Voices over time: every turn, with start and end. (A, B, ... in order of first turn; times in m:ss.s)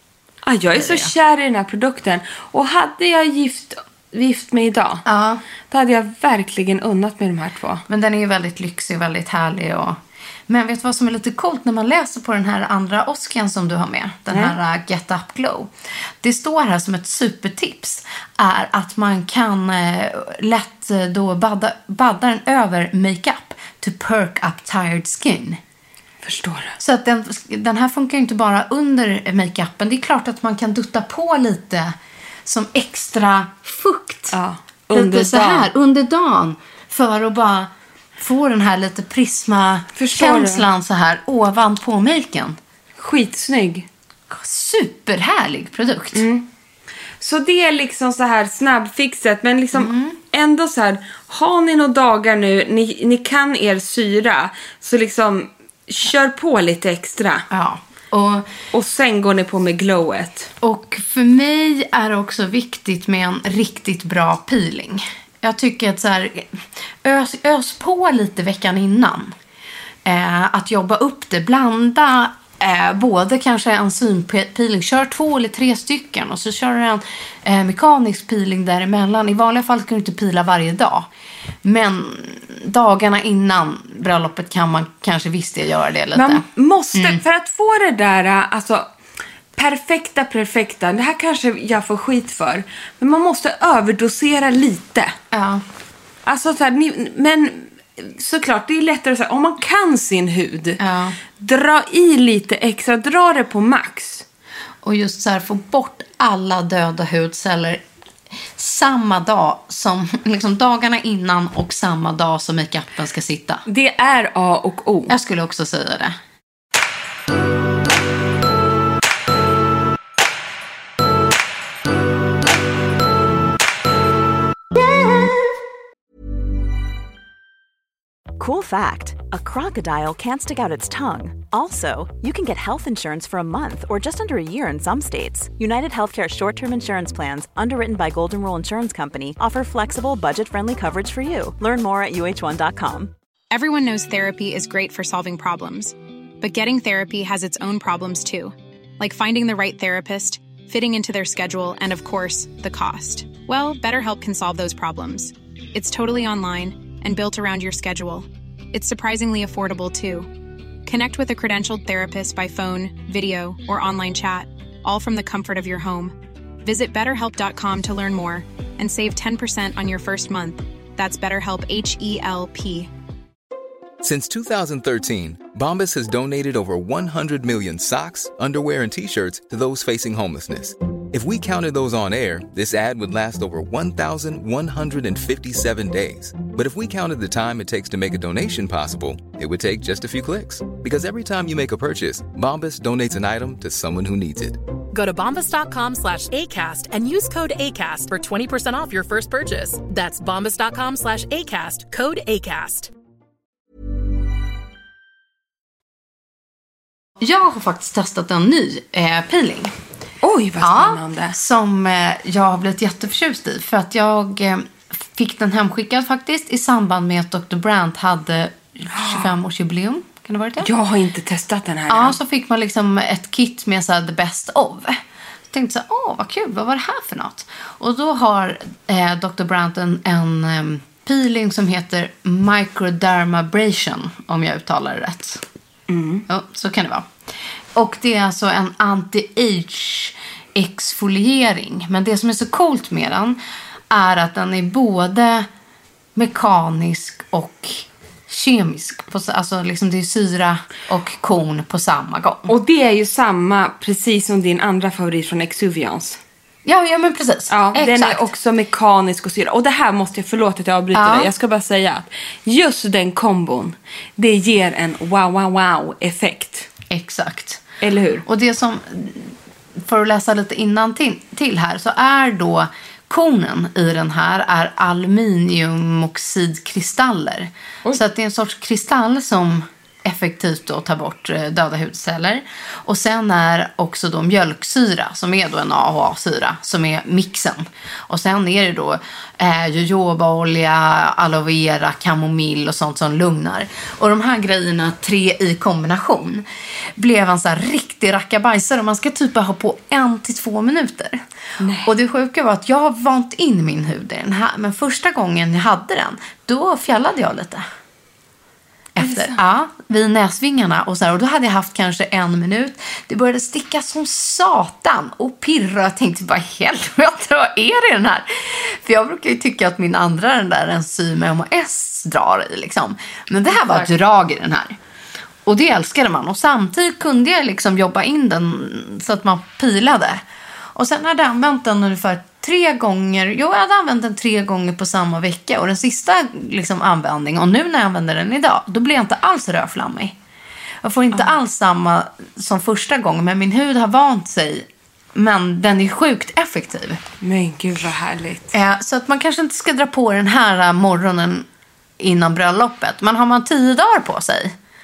0:00.4-0:05.0 A
0:00.8-0:01.1 B
0:05.0-0:05.4 B
0:05.7-0:07.8 A
0:07.9-0:25.6 B
0:26.2-0:26.8 A
0:26.8-0:34.4 B
0:34.3-0:35.7 A
0:34.9-0:42.6 B
0:40.0-0:40.7 A
0:43.0-0:43.9 A
0:44.3-0:46.3 B
0:46.2-0:46.5 A
0:47.2-0:57.5 A
0:49.8-0:50.2 B
0:57.5-0:58.5 B
0:58.7-1:00.5 A
1:00.6-1:09.4 B
1:10.0-1:21.1 B
1:21.6-1:27.2 B
1:26.1-1:28.9 A
1:29.6-1:35.2 A
1:35.3-1:35.6 B
1:36.3-1:40.8 A
1:40.8-1:41.2 B
1:41.4-1:44.2 A
1:44.8-1:47.8 B
1:48.6-1:53.6 B
1:53.7-1:55.1 A
1:55.1-1:56.2 B
2:08.4-2:23.1 C
2:23.5-2:40.3 D
2:40.9-2:52.9 D
2:54.0-3:14.6 E
3:14.9-3:22.9 F
3:27.2-3:29.7 B
3:30.2-3:31.3 A
3:30.6-3:40.7 B
3:38.9-3:39.3 A
3:40.6-3:42.2 A
3:41.9-3:45.0 B
3:45.5-3:55.4 B
3:55.9-3:56.2 A
3:56.3-3:57.1 B
3:57.8-4:03.4 B
4:03.9-4:05.5 B
4:06.2-4:12.5 B
4:12.5-4:16.2 A
4:16.6-4:18.2 B
4:17.5-4:26.7 A
4:21.0-4:21.3 B
4:26.9-4:27.6 B
4:27.8-4:28.2 A
4:28.3-5:01.2 B
5:01.6-5:01.9 A
5:01.8-5:07.6 B
5:09.0-5:24.8 B
5:09.0-5:09.4 A
5:23.6-5:23.9 A
5:25.4-5:30.2 B
5:30.8-5:40.2 B
5:40.8-5:47.0 B
5:47.2-5:48.5 A
5:48.5-5:51.5 B
5:52.0-5:54.5 B